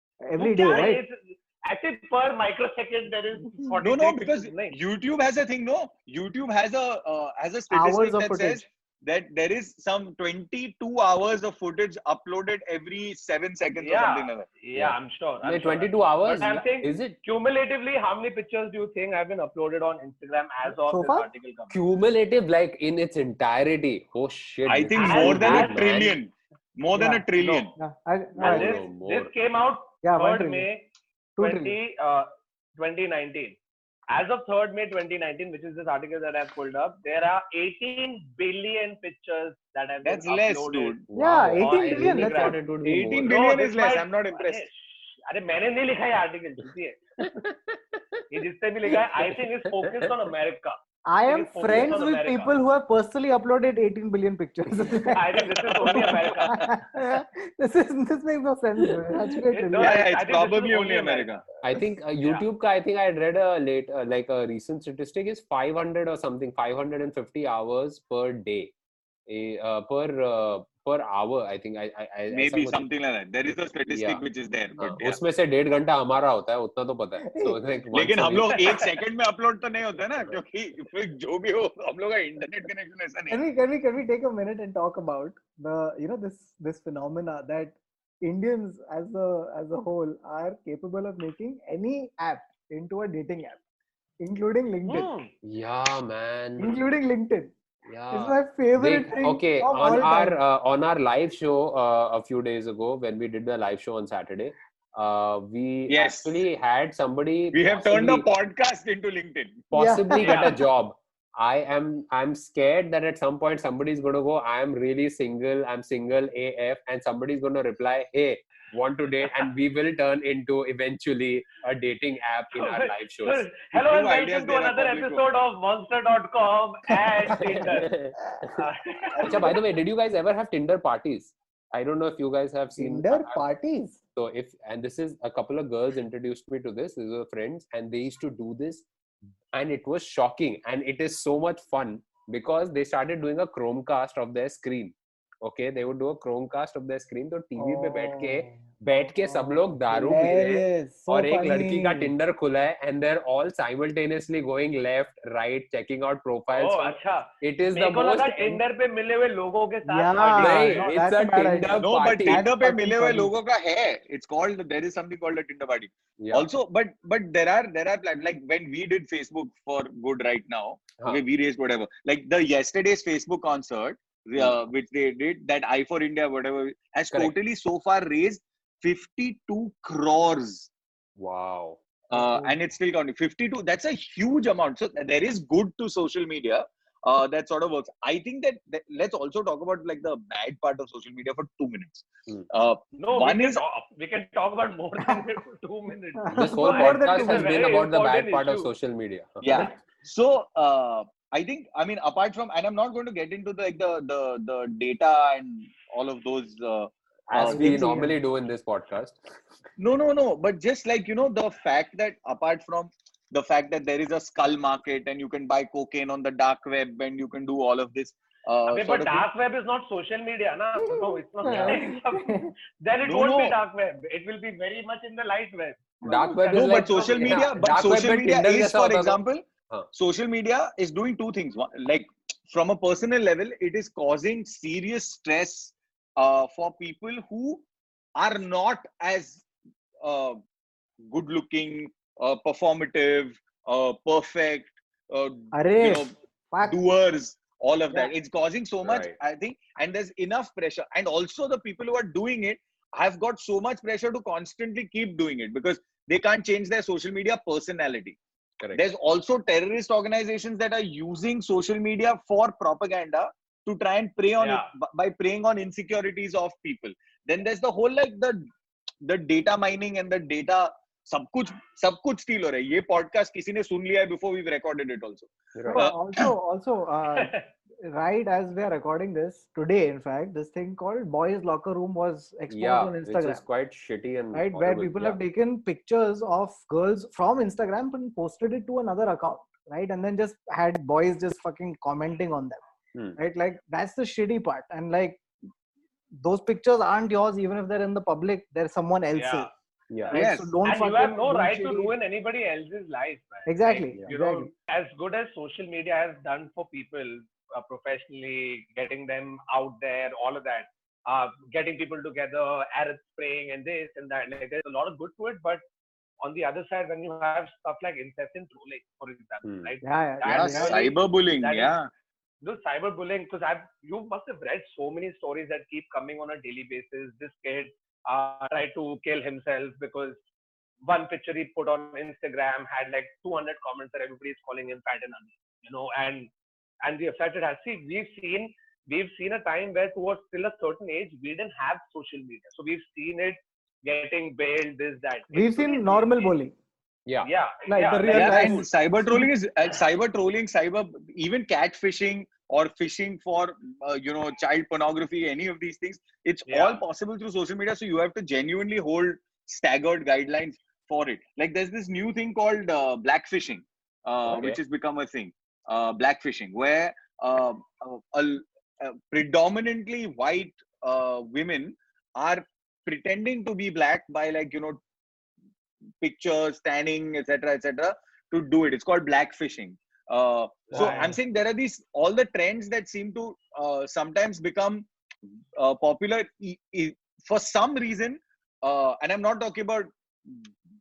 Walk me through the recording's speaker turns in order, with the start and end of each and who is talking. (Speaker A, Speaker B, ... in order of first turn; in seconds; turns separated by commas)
Speaker A: 0.2-1.0, Speaker B: 0.4-4.8, Speaker C: 3.8-14.4, Speaker A: 7.7-8.7, Speaker B: 13.8-21.8, Speaker D: 14.7-17.1, Speaker A: 20.7-21.3, Speaker D: 21.7-26.1, Speaker C: 24.7-27.7, Speaker B: 24.9-26.0, Speaker A: 26.9-27.2, Speaker B: 27.4-27.7, Speaker A: 27.8-28.8, Speaker D: 28.4-29.3, Speaker B: 28.4-30.8, Speaker A: 30.0-30.7, Speaker A: 31.4-31.8, Speaker B: 31.4-33.6, Speaker B: 34.1-41.0, Speaker C: 40.0-41.0, Speaker D: 41.1-43.3, Speaker A: 41.1-42.6, Speaker B: 41.6-42.6, Speaker C: 42.8-44.6, Speaker B: 43.1-47.3, Speaker D: 47.2-47.5, Speaker B: 48.3-52.5, Speaker D: 49.2-50.1, Speaker A: 51.1-60.0, Speaker B: 55.1-56.7, Speaker B: 59.5-61.3, Speaker C: 59.8-61.4, Speaker D: 61.6-68.7, Speaker D: 69.3-72.8, Speaker C: 72.3-75.2, Speaker D: 73.9-74.2, Speaker D: 74.8-78.6, Speaker A: 77.2-77.6, Speaker C: 77.9-83.4, Speaker A: 83.3-93.6, Speaker A: 94.2-95.1, Speaker B: 94.9-95.3, Speaker D: 95.4-96.8, Speaker A: 96.6-97.5, Speaker D: 97.9-108.3, Speaker A: 98.1-100.4, Speaker C: 105.9-106.4, Speaker C: 107.5-109.7, Speaker D: 109.7-123.5, Speaker A: 109.7-110.6, Speaker B: 110.2-110.6, Speaker B: 122.5-127.9, Speaker C: 123.7-125.2, Speaker D: 127.3-128.6, Speaker B: 128.6-129.5, Speaker A: 129.1-129.6, Speaker D: 129.2-133.4, Speaker A: 132.8-134.0, Speaker D: 134.1-138.8, Speaker D: 139.5-158.6, Speaker A: 147.6-148.6, Speaker A: 149.2-152.1, Speaker B: 156.5-160.9, Speaker A: 159.8-163.3, Speaker D: 160.3-162.4, Speaker C: 161.8-180.7, Speaker D: 166.2-166.5, Speaker D: 181.2-181.8, Speaker C: 182.1-193.6, Speaker A: 182.2-182.5, Speaker B: 193.0-198.7, Speaker A: 196.2-197.6, Speaker D: 196.3-199.7, Speaker C: 199.4-207.9, Speaker D: 207.3-209.2, Speaker A: 207.4-208.2, Speaker C: 209.8-219.2, Speaker B: 218.7-227.6, Speaker A: 220.9-222.5, Speaker D: 221.4-221.7, Speaker C: 223.0-223.6, Speaker A: 226.0-226.5, Speaker D: 226.1-229.9, Speaker C: 226.5-237.6, Speaker C: 238.2-239.4, Speaker C: 240.0-240.4, Speaker C: 241.1-258.2, Speaker A: 245.5-246.7, Speaker D: 248.8-249.1, Speaker C: 258.7-268.4, Speaker B: 264.4-264.7, Speaker C: 269.0-276.3, Speaker D: 275.5-275.8, Speaker A: 275.7-283.4, Speaker B: 277.1-277.4, Speaker D: 282.5-285.2, Speaker A: 284.3-292.6, Speaker A: 293.2-295.2, Speaker A: 296.2-299.5, Speaker B: 299.1-299.5, Speaker B: 300.0-315.6, Speaker A: 300.1-301.9, Speaker C: 300.1-300.5, Speaker A: 303.4-304.5, Speaker B: 316.2-321.7, Speaker A: 319.8-320.8, Speaker C: 320.2-321.9, Speaker B: 322.4-330.2, Speaker B: 330.8-336.3, Speaker B: 336.8-346.3, Speaker A: 345.3-346.5, Speaker B: 347.2-348.6, Speaker A: 347.7-349.3, Speaker C: 348.1-374.8, Speaker B: 356.5-356.8, Speaker D: 364.2-364.6, Speaker C: 376.0-384.9, Speaker B: 380.7-381.2, Speaker C: 385.6-390.4